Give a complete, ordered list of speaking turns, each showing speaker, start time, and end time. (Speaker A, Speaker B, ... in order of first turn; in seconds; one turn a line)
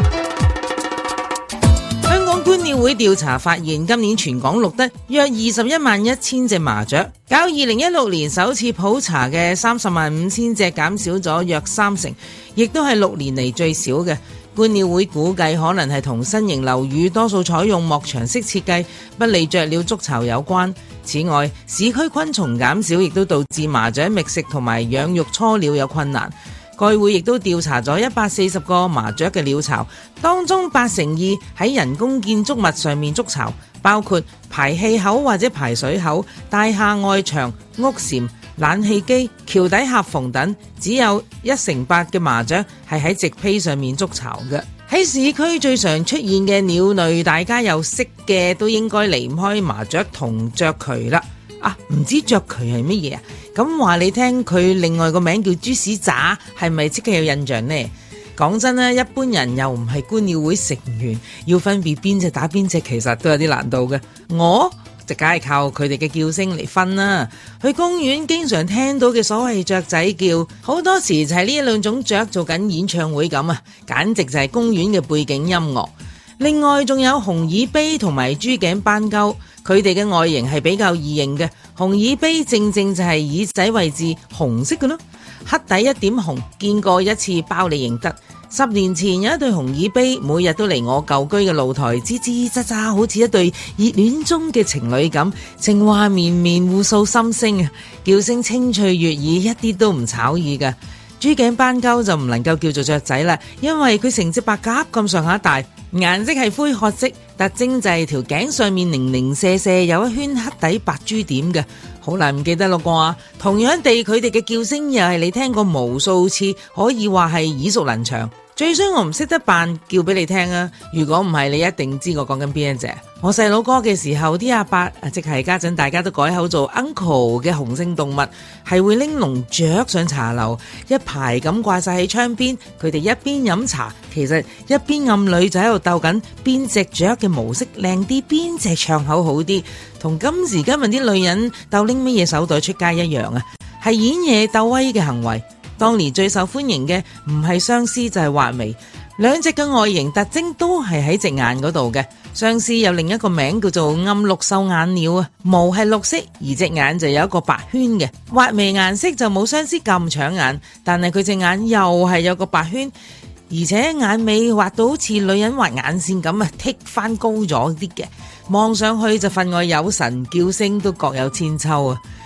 Speaker A: 2.0-162.9
Speaker A: 163.5-172.0